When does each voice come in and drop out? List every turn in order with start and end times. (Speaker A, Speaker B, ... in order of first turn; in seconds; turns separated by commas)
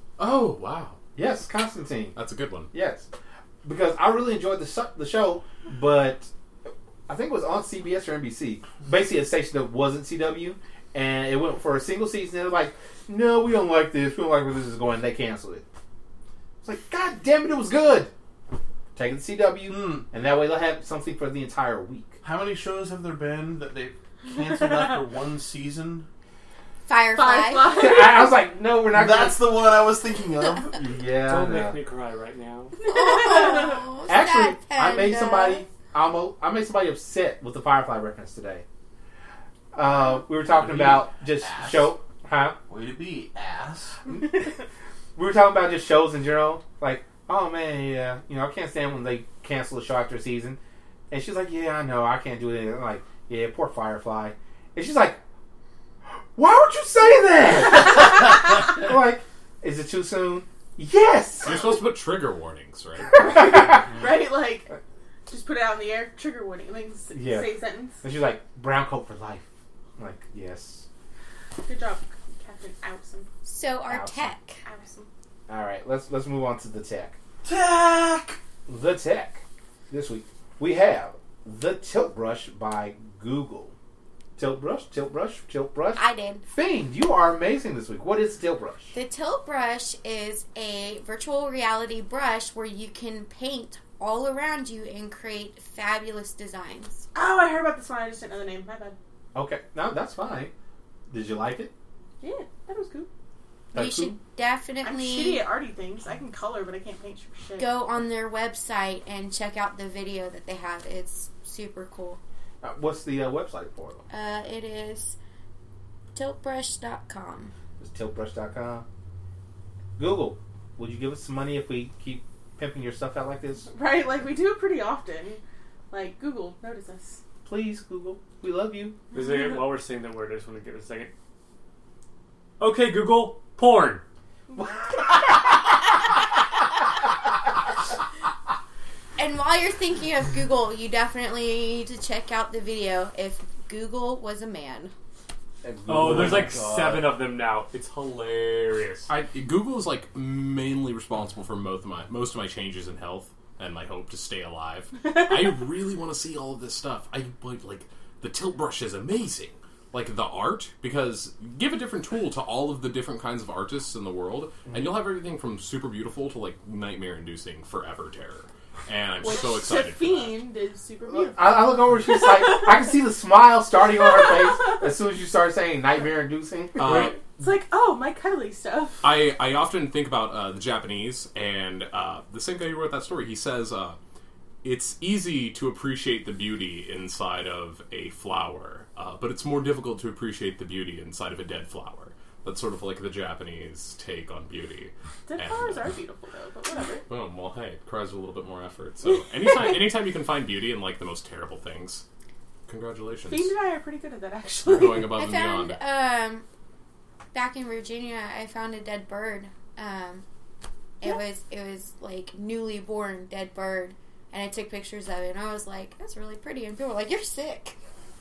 Speaker A: 0.2-1.0, Speaker B: 1.1-2.2, Speaker A: 2.1-2.7, Speaker B: 2.7-3.1, Speaker B: 3.6-15.6, Speaker B: 16.6-18.1, Speaker B: 18.9-22.2, Speaker C: 19.6-20.1, Speaker C: 22.2-26.1, Speaker D: 26.9-27.9, Speaker E: 27.1-28.4, Speaker B: 27.6-29.4, Speaker C: 28.9-30.8, Speaker B: 30.7-31.8, Speaker F: 31.1-32.7, Speaker E: 32.8-33.8, Speaker D: 32.8-35.6, Speaker B: 34.1-38.6, Speaker B: 39.7-42.6, Speaker C: 40.4-42.0, Speaker C: 42.7-44.0, Speaker B: 45.1-50.6, Speaker B: 51.1-55.2, Speaker B: 56.4-61.8, Speaker A: 61.4-63.3, Speaker C: 63.7-64.0, Speaker E: 64.0-64.7, Speaker E: 65.3-68.0, Speaker B: 67.1-69.4, Speaker B: 70.0-70.8, Speaker E: 71.6-73.3, Speaker D: 73.4-74.6, Speaker B: 73.9-74.3, Speaker E: 74.6-75.1, Speaker B: 75.5-77.2, Speaker C: 77.4-78.4, Speaker B: 78.7-83.7, Speaker B: 84.3-88.9, Speaker D: 86.0-86.4, Speaker D: 88.9-97.1, Speaker E: 97.1-99.0, Speaker B: 99.3-100.5, Speaker B: 101.1-101.7, Speaker E: 102.2-103.1, Speaker B: 103.7-104.2, Speaker D: 103.7-105.4, Speaker E: 104.8-107.7, Speaker D: 107.6-112.2, Speaker B: 112.6-114.1, Speaker D: 114.1-115.2, Speaker D: 116.1-117.5, Speaker B: 117.8-118.8, Speaker B: 120.0-123.7, Speaker E: 123.7-127.2, Speaker B: 127.4-129.0, Speaker F: 129.1-131.1, Speaker E: 129.2-129.6, Speaker F: 132.6-134.0, Speaker E: 134.5-134.9, Speaker D: 139.2-144.9, Speaker B: 145.6-146.9, Speaker F: 145.9-149.1, Speaker C: 145.9-147.0, Speaker A: 149.1-170.4, Speaker E: 169.2-172.9, Speaker B: 171.1-177.1, Speaker A: 176.8-177.2, Speaker E: 176.8-179.1, Speaker A: 179.0-184.0, Speaker A: 184.6-195.9, Speaker E: 195.3-197.1, Speaker A: 197.1-202.0, Speaker A: 202.7-203.5, Speaker E: 203.3-205.1, Speaker A: 204.7-205.8, Speaker D: 205.1-206.4, Speaker D: 207.3-210.2, Speaker D: 211.0-217.8